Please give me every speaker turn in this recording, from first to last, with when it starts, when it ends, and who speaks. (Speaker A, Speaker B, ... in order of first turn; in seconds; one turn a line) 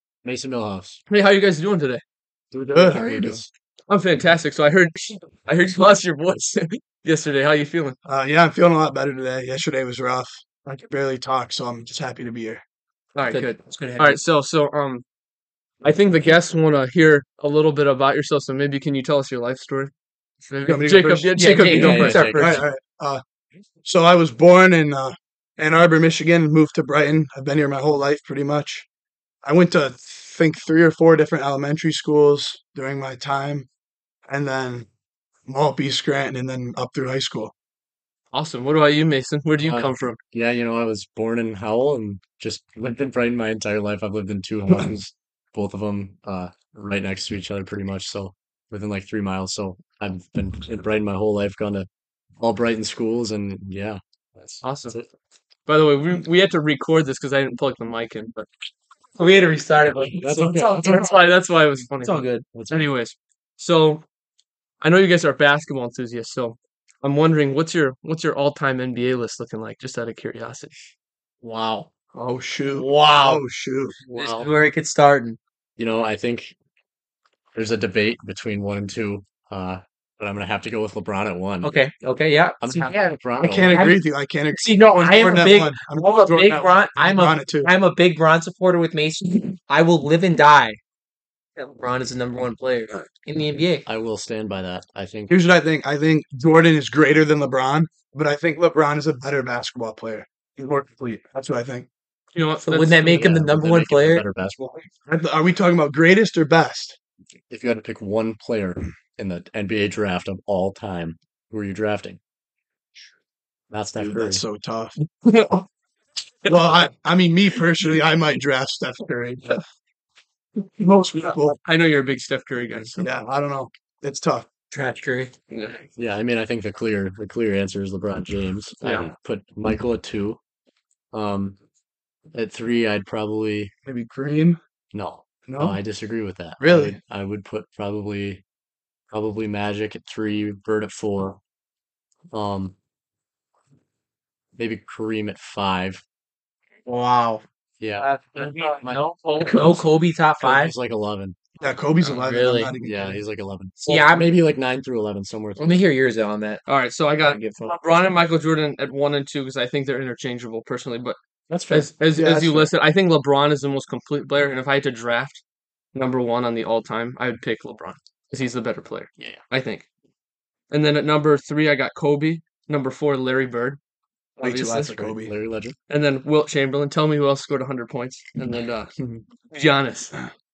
Speaker A: 0.2-1.0
Speaker B: 1.1-2.0
Speaker A: 2.5-3.5
Speaker C: 2.7-3.4
Speaker B: 3.9-8.0
Speaker C: 8.0-12.6
Speaker B: 13.1-15.0
Speaker D: 13.3-14.2
Speaker B: 15.8-19.9
Speaker B: 20.5-22.2
Speaker C: 20.6-23.2
Speaker D: 21.4-22.6
Speaker A: 21.8-22.6
Speaker C: 23.8-28.9
Speaker C: 29.4-33.7
Speaker C: 34.3-34.9
Speaker C: 35.5-37.5
Speaker B: 38.3-40.2
Speaker A: 39.6-51.9
Speaker A: 52.4-55.1
Speaker B: 54.6-54.9
Speaker B: 55.7-58.4
Speaker D: 59.1-61.1
Speaker A: 60.0-61.1
Speaker B: 60.6-64.0
Speaker D: 62.0-62.5
Speaker A: 62.5-62.8
Speaker B: 64.8-70.8
Speaker D: 71.4-71.9
Speaker C: 72.1-74.0
Speaker D: 72.7-73.4
Speaker B: 74.1-74.5
Speaker D: 74.2-75.4
Speaker A: 74.2-74.5
Speaker A: 75.8-76.5
Speaker A: 77.5-81.7
Speaker D: 81.6-83.1
Speaker A: 82.6-83.8
Speaker C: 83.4-87.7
Speaker D: 83.7-84.0
Speaker D: 84.5-90.8
Speaker D: 91.5-93.8
Speaker A: 93.8-95.3
Speaker C: 95.3-101.9
Speaker B: 102.3-103.3
Speaker D: 102.6-104.2
Speaker A: 103.0-104.9
Speaker C: 105.0-107.0
Speaker A: 107.5-112.2
Speaker A: 113.7-114.4
Speaker C: 114.0-115.0
Speaker B: 115.0-115.7
Speaker C: 116.5-119.6
Speaker C: 120.8-121.6
Speaker B: 121.5-123.1
Speaker C: 123.0-124.5
Speaker D: 124.7-125.3
Speaker B: 125.5-125.8
Speaker A: 126.0-130.4
Speaker B: 128.8-129.1
Speaker A: 131.1-131.6
Speaker A: 132.3-133.7
Speaker C: 133.8-134.6
Speaker A: 134.9-138.4
Speaker C: 135.5-135.8
Speaker C: 136.6-137.0
Speaker A: 139.1-141.4
Speaker A: 142.3-142.7
Speaker A: 144.6-146.0
Speaker D: 146.8-147.4
Speaker A: 147.8-149.0
Speaker B: 148.0-149.8
Speaker D: 149.4-150.7
Speaker A: 150.4-151.4
Speaker C: 151.6-153.2
Speaker D: 152.1-152.7
Speaker A: 152.8-155.8
Speaker D: 153.8-154.3
Speaker D: 155.6-156.6
Speaker B: 156.7-161.2
Speaker D: 157.2-157.8
Speaker D: 161.5-161.8
Speaker B: 161.7-165.4
Speaker C: 162.1-162.7
Speaker B: 165.9-169.8
Speaker B: 170.7-173.8
Speaker B: 174.4-175.0
Speaker C: 174.4-175.3
Speaker A: 174.9-175.8
Speaker B: 175.9-178.9
Speaker B: 179.5-180.2